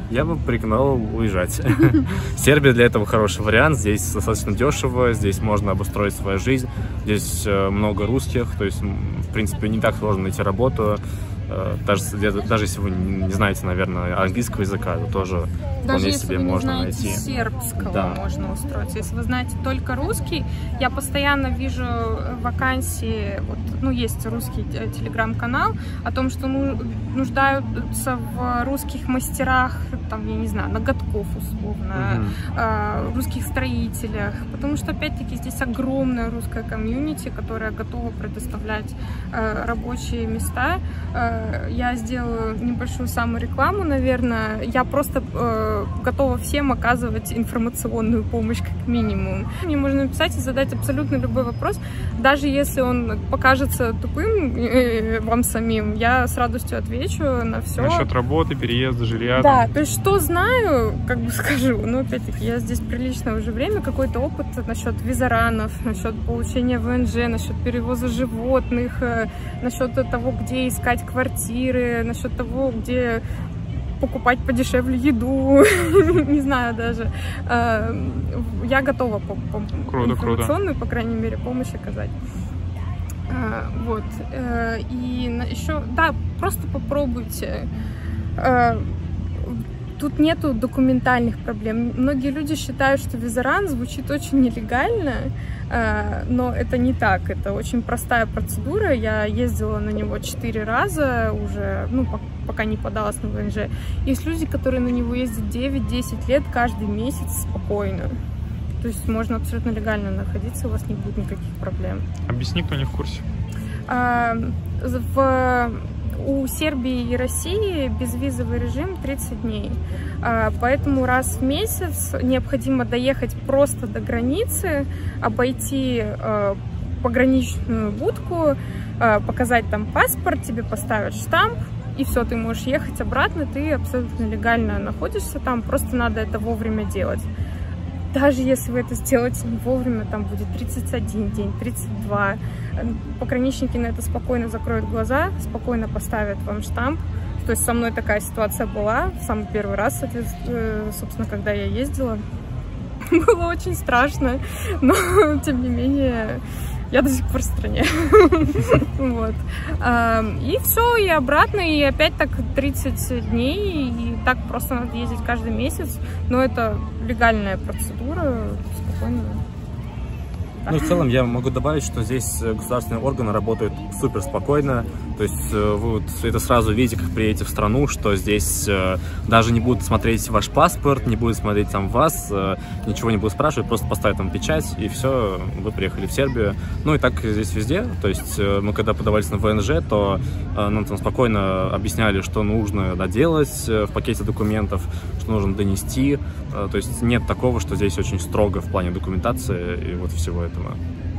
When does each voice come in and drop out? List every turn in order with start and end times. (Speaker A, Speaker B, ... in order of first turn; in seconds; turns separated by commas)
Speaker A: 0.1-17.2, Speaker B: 15.8-58.1, Speaker A: 17.8-18.2, Speaker A: 31.9-32.3, Speaker C: 57.8-59.7, Speaker B: 59.4-73.2, Speaker B: 74.0-82.1, Speaker C: 79.9-80.5, Speaker B: 83.3-87.7, Speaker B: 88.4-108.2, Speaker B: 108.8-112.1, Speaker C: 112.3-113.2, Speaker B: 113.9-137.3, Speaker B: 138.1-152.2, Speaker B: 153.0-169.4, Speaker A: 170.6-200.8, Speaker B: 170.7-171.0